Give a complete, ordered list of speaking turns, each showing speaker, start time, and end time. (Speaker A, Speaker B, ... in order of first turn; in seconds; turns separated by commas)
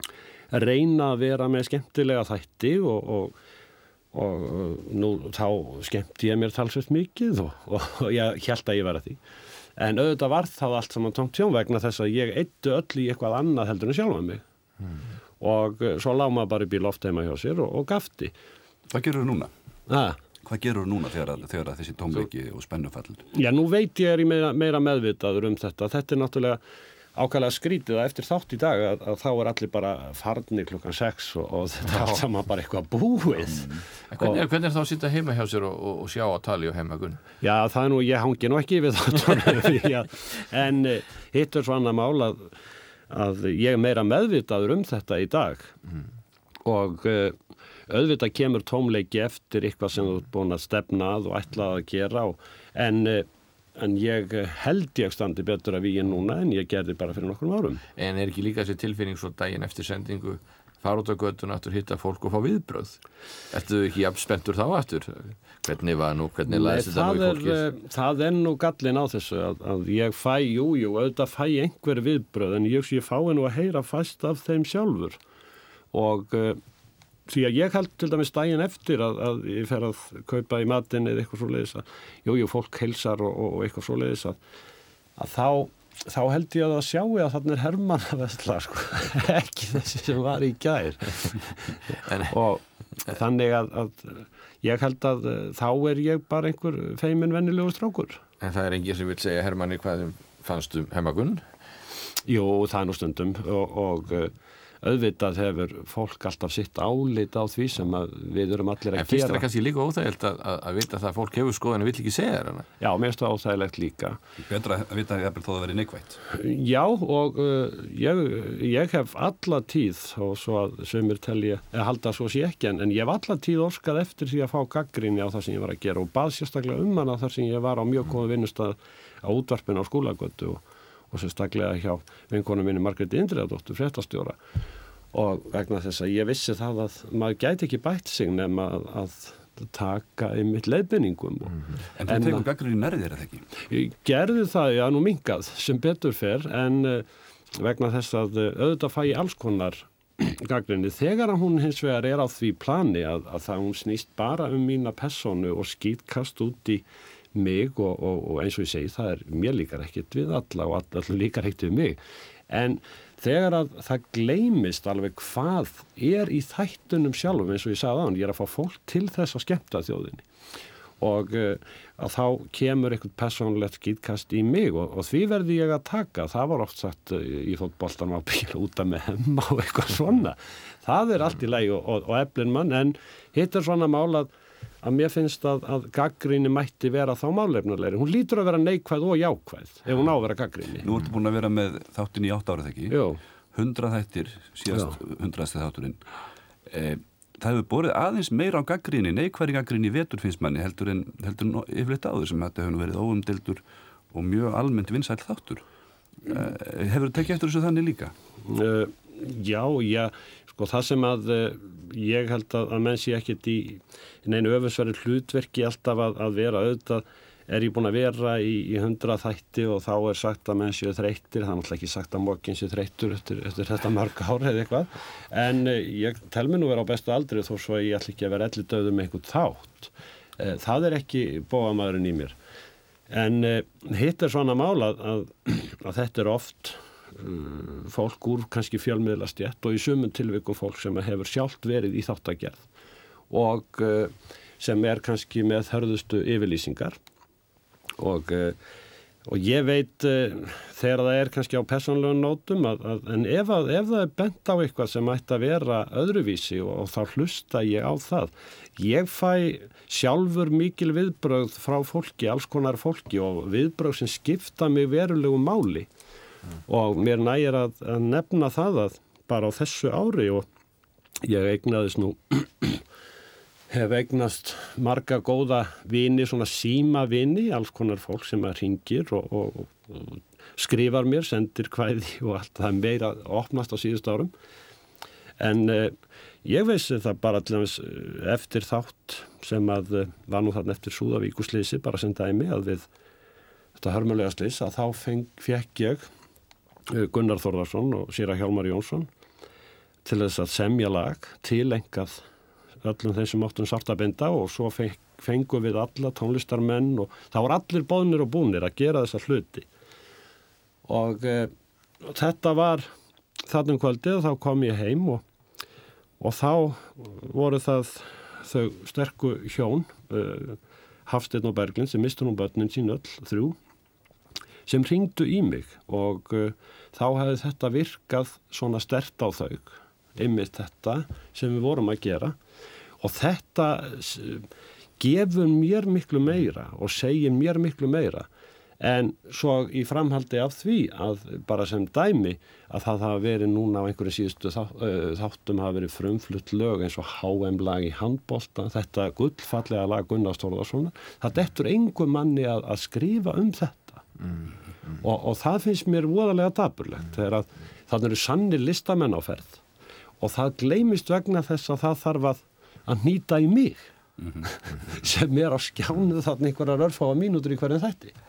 Speaker A: 0.5-3.4, Speaker A: 4.1-9.2, Speaker A: 9.8-14.4, Speaker A: 15.4-18.3, Speaker B: 18.9-19.5, Speaker A: 19.9-20.2, Speaker B: 20.4-23.2, Speaker A: 23.3-26.6, Speaker A: 27.1-34.4, Speaker B: 33.5-33.8, Speaker C: 34.1-37.2, Speaker A: 37.4-42.5, Speaker A: 43.1-45.7, Speaker A: 46.6-47.4, Speaker A: 47.9-57.8, Speaker C: 58.0-67.6, Speaker A: 66.5-75.2, Speaker A: 75.9-76.6, Speaker A: 77.3-84.4, Speaker A: 85.2-91.5, Speaker C: 92.1-92.3, Speaker A: 92.2-98.2, Speaker C: 98.4-101.5, Speaker A: 102.3-109.4, Speaker C: 109.0-112.7, Speaker A: 112.8-114.2, Speaker B: 114.4-116.2, Speaker A: 116.3-134.4, Speaker A: 135.1-142.4, Speaker B: 142.0-143.4, Speaker A: 143.7-147.1, Speaker A: 147.6-170.2, Speaker A: 171.0-184.3, Speaker A: 184.8-190.9, Speaker B: 190.8-193.0, Speaker A: 192.9-193.2, Speaker B: 193.5-196.0, Speaker A: 194.7-195.0, Speaker B: 196.7-205.7, Speaker B: 206.2-208.1, Speaker A: 208.4-232.4, Speaker A: 233.1-242.7, Speaker A: 243.3-247.0, Speaker A: 248.0-248.6, Speaker A: 249.3-265.9, Speaker A: 266.7-270.5, Speaker A: 271.2-272.8, Speaker A: 273.7-284.3, Speaker A: 285.4-292.9, Speaker A: 293.8-296.1, Speaker A: 296.9-299.1, Speaker A: 300.1-302.2, Speaker A: 302.8-309.7, Speaker A: 310.9-312.9, Speaker A: 313.5-315.2, Speaker A: 316.2-323.6, Speaker A: 324.7-332.4, Speaker A: 333.0-334.5, Speaker A: 335.0-338.3, Speaker A: 338.8-354.0, Speaker A: 355.0-359.6, Speaker A: 360.2-363.8, Speaker A: 364.4-368.1